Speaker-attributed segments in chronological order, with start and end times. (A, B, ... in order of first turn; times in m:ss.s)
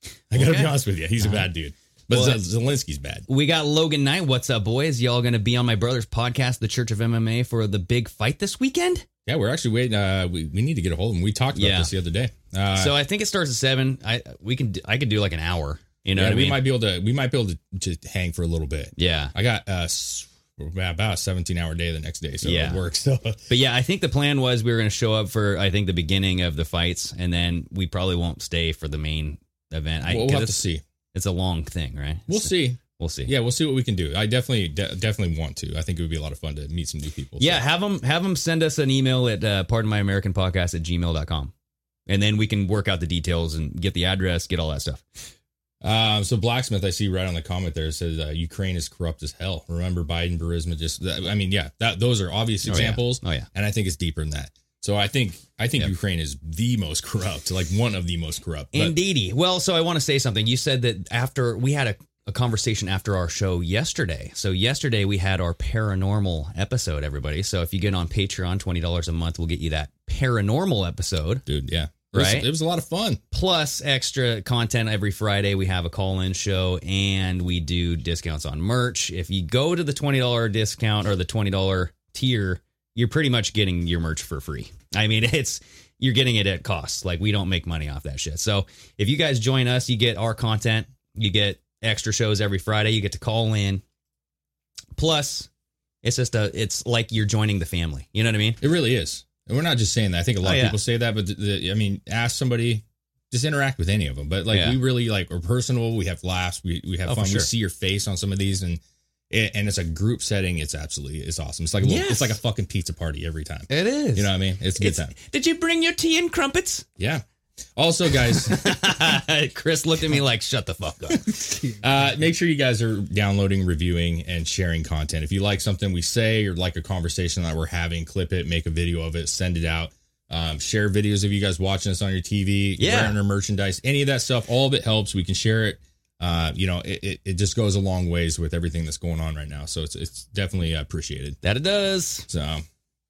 0:00.3-0:03.2 A
0:00.3-0:01.5 B
0:02.1-0:02.4 B
0:03.3-0:09.1 B
0:09.3-0:13.0 A
0:11.5-0:11.9 B
0:12.8-0:16.6 B
0:16.2-0:23.4 A
0:19.0-0:19.3 B
0:22.4-0:22.8 B
0:23.5-0:30.6 B
0:30.1-0:30.8 A
0:31.1-0:33.3 B
0:32.3-0:37.6 A
0:37.4-0:41.5 B
0:42.1-0:45.0 B
0:45.8-0:59.0 A
0:52.6-0:53.5 B
0:58.7-1:11.4 B
1:11.5-1:13.2 A
1:12.1-1:12.5 B
1:13.3-1:33.8 B
1:35.0-1:35.5 B
1:36.0-1:38.6 B
1:38.6-1:55.1 A
1:40.4-1:40.8 B
1:44.5-1:44.8 B
1:47.1-1:47.5 B
1:51.8-1:52.4 B
1:53.7-1:56.9 B
1:57.8-1:59.0 A
1:58.3-2:01.4 B
2:01.3-2:21.4 A
2:12.8-2:13.2 B
2:21.4-2:22.3 B
2:22.3-2:22.7 A